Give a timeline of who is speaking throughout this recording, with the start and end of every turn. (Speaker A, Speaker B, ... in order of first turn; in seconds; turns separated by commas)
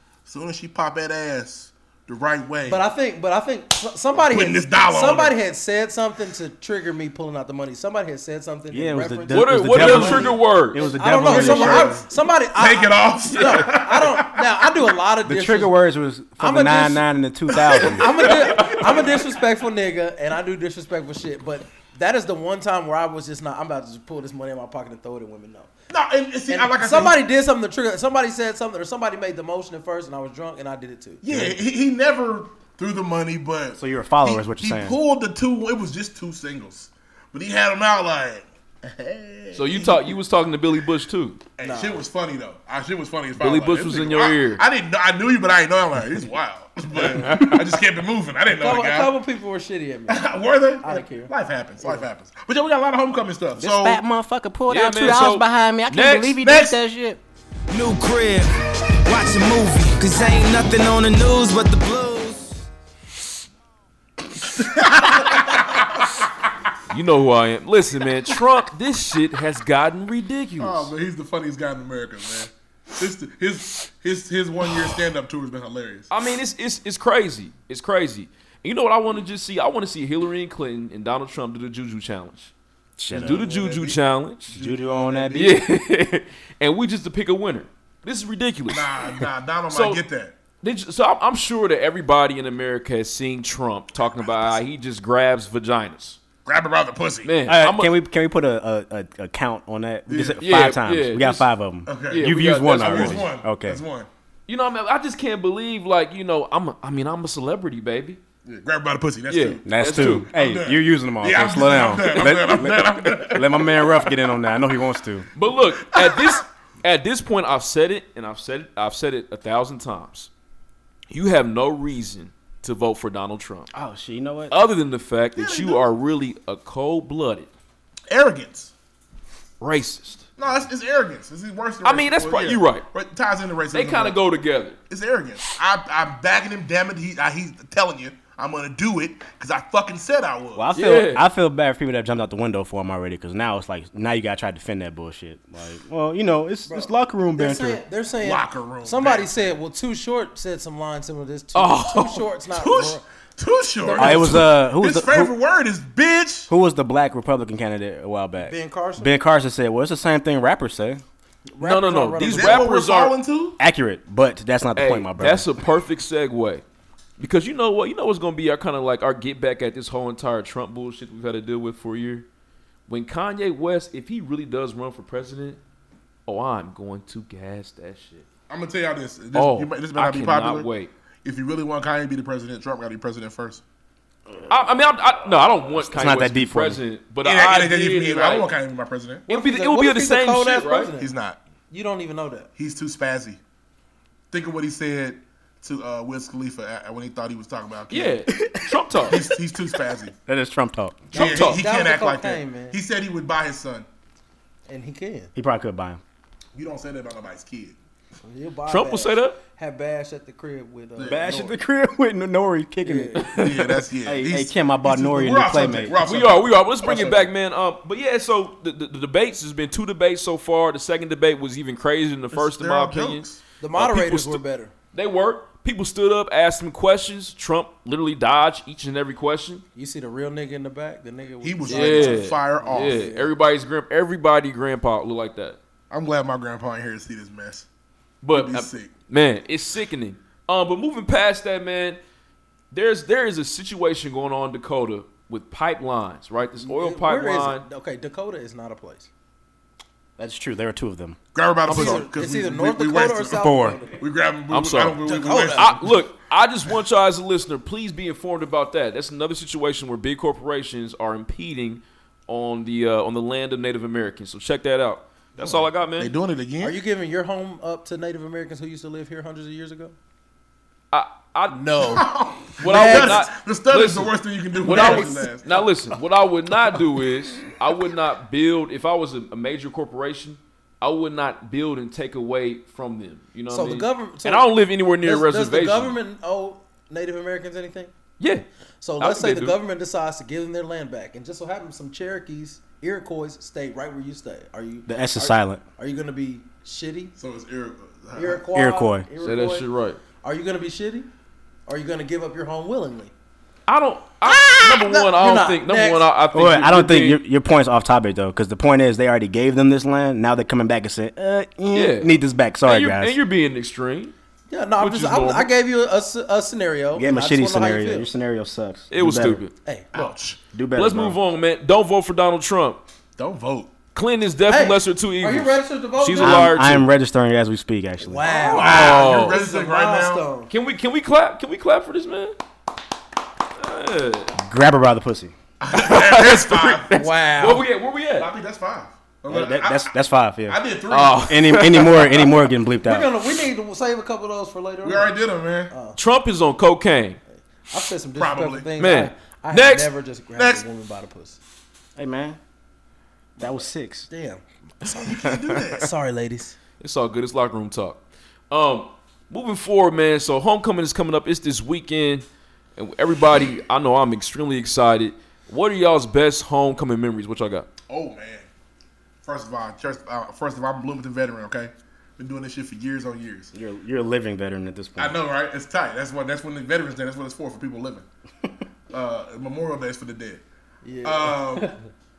Speaker A: 0.2-2.8, Speaker B: 2.7-15.7, Speaker A: 4.2-5.4, Speaker C: 8.7-12.0, Speaker D: 9.3-10.8, Speaker A: 11.2-14.5, Speaker D: 13.3-13.7, Speaker C: 15.2-18.4, Speaker B: 16.4-17.0, Speaker A: 17.6-18.0, Speaker B: 17.9-25.7, Speaker D: 18.3-19.1, Speaker A: 18.6-19.1, Speaker A: 25.9-27.2, Speaker B: 26.5-31.2, Speaker A: 31.2-40.1, Speaker C: 31.3-31.6, Speaker C: 33.8-35.0, Speaker D: 39.5-41.4, Speaker A: 41.6-49.1, Speaker B: 41.6-42.0, Speaker D: 43.4-44.6, Speaker B: 48.5-50.3, Speaker A: 50.1-54.0, Speaker B: 50.8-52.0, Speaker C: 53.6-57.2, Speaker D: 54.7-56.4, Speaker A: 56.4-56.8, Speaker E: 57.7-58.5, Speaker E: 59.0-62.6, Speaker A: 64.4-66.2, Speaker D: 66.9-70.9, Speaker A: 70.6-76.1, Speaker D: 76.1-82.5, Speaker C: 83.0-83.4, Speaker A: 83.1-85.6, Speaker D: 83.1-84.5, Speaker C: 84.5-85.6, Speaker D: 85.3-90.0, Speaker A: 88.7-90.3, Speaker D: 90.6-96.2, Speaker A: 93.9-94.6, Speaker A: 96.5-97.3, Speaker D: 97.2-97.9, Speaker C: 97.5-103.8, Speaker A: 100.1-100.4, Speaker D: 100.4-101.5, Speaker A: 101.8-104.1, Speaker D: 102.1-103.2, Speaker D: 104.5-108.2, Speaker A: 108.5-114.1, Speaker D: 109.3-110.3, Speaker C: 109.7-115.3, Speaker D: 115.3-120.3, Speaker A: 115.9-116.4, Speaker D: 121.1-123.7, Speaker C: 123.7-124.6, Speaker D: 124.5-127.5, Speaker A: 125.3-125.8, Speaker A: 128.1-128.7, Speaker D: 129.6-130.3, Speaker A: 130.4-134.2, Speaker D: 131.8-132.9, Speaker D: 133.7-134.8, Speaker A: 134.9-140.7, Speaker C: 140.5-147.8, Speaker D: 140.7-141.2, Speaker B: 146.7-153.0, Speaker A: 148.2-149.5, Speaker D: 151.5-152.2, Speaker A: 152.5-156.5, Speaker B: 153.8-154.4, Speaker C: 154.0-155.3, Speaker C: 156.5-161.0, Speaker B: 158.4-159.1, Speaker B: 161.5-162.7, Speaker D: 161.6-163.1, Speaker A: 162.2-163.6, Speaker C: 163.6-165.5, Speaker D: 164.8-166.6, Speaker D: 167.2-172.2, Speaker D: 172.9-175.6, Speaker D: 176.3-178.2, Speaker A: 178.5-180.7, Speaker D: 179.3-180.9, Speaker A: 181.2-183.6, Speaker D: 184.5-188.5, Speaker C: 185.8-186.8, Speaker A: 187.2-189.2, Speaker D: 189.3-190.9, Speaker B: 189.3-191.1, Speaker A: 191.0-191.4, Speaker B: 191.7-192.5, Speaker A: 192.6-193.4, Speaker A: 194.3-198.2, Speaker D: 197.9-199.2, Speaker C: 198.5-199.2, Speaker A: 199.1-200.1, Speaker C: 200.3-201.1, Speaker D: 201.1-201.6, Speaker A: 201.1-203.9, Speaker B: 201.1-202.8, Speaker B: 204.7-205.3, Speaker C: 205.3-206.0, Speaker A: 206.5-207.8, Speaker B: 208.2-211.6, Speaker D: 208.7-209.4, Speaker A: 211.0-211.3, Speaker C: 211.1-215.9, Speaker B: 212.8-213.3, Speaker D: 213.2-213.5, Speaker A: 213.4-217.3, Speaker D: 216.0-223.2, Speaker A: 222.3-224.4, Speaker B: 223.6-224.7, Speaker D: 224.9-229.6, Speaker B: 229.8-233.3, Speaker A: 231.4-233.0, Speaker D: 231.7-235.6, Speaker A: 235.9-237.7, Speaker D: 238.2-242.0, Speaker A: 238.3-238.9, Speaker D: 242.7-247.6, Speaker B: 246.6-249.1, Speaker C: 250.2-251.2, Speaker A: 251.3-255.9, Speaker D: 251.6-252.1, Speaker B: 251.7-254.0, Speaker C: 253.4-253.8, Speaker D: 254.5-266.1, Speaker B: 255.0-255.8, Speaker A: 265.4-266.8, Speaker B: 266.6-269.9, Speaker D: 270.9-272.0, Speaker B: 271.5-272.0, Speaker A: 271.9-275.6, Speaker D: 272.6-285.9, Speaker B: 272.6-273.2, Speaker B: 274.6-275.3, Speaker B: 283.5-284.5, Speaker B: 285.0-287.9, Speaker D: 288.2-288.4, Speaker B: 288.8-297.1, Speaker D: 289.0-289.6, Speaker C: 294.9-295.6, Speaker A: 297.2-298.4, Speaker B: 298.1-299.7, Speaker C: 298.5-299.1, Speaker D: 299.2-300.0, Speaker B: 300.2-301.1, Speaker B: 301.7-303.1, Speaker D: 303.7-307.2, Speaker B: 304.2-306.1, Speaker C: 306.3-313.2, Speaker D: 311.7-314.1, Speaker B: 314.5-318.1, Speaker D: 314.8-315.5, Speaker C: 316.9-319.4, Speaker D: 318.9-319.5, Speaker B: 319.6-320.1, Speaker A: 319.9-320.4, Speaker C: 320.5-321.2, Speaker D: 320.7-322.8, Speaker A: 323.2-323.7, Speaker D: 323.9-326.9, Speaker B: 324.5-326.5, Speaker C: 326.2-328.3, Speaker B: 328.0-330.5, Speaker A: 328.3-330.2, Speaker D: 328.4-329.4, Speaker D: 330.5-332.4, Speaker D: 333.6-334.3, Speaker C: 334.4-335.3, Speaker A: 335.6-337.0, Speaker D: 335.7-338.3, Speaker B: 336.9-337.6, Speaker A: 338.2-339.9, Speaker C: 339.3-340.6, Speaker A: 340.5-341.5, Speaker D: 340.9-342.3, Speaker C: 341.2-343.1, Speaker B: 342.8-345.2, Speaker A: 344.8-345.7, Speaker B: 345.7-346.0, Speaker D: 345.9-347.2, Speaker B: 347.7-351.4, Speaker A: 348.1-348.7, Speaker D: 348.8-349.9, Speaker A: 350.3-350.6, Speaker C: 351.9-352.4, Speaker C: 353.4-354.1, Speaker B: 354.1-356.5, Speaker A: 354.9-355.9, Speaker D: 356.8-362.2, Speaker D: 362.8-367.7, Speaker A: 367.9-368.5, Speaker A: 369.2-373.5, Speaker C: 373.5-375.2, Speaker A: 375.0-378.0, Speaker A: 378.9-380.4, Speaker B: 380.8-381.7, Speaker A: 381.0-381.7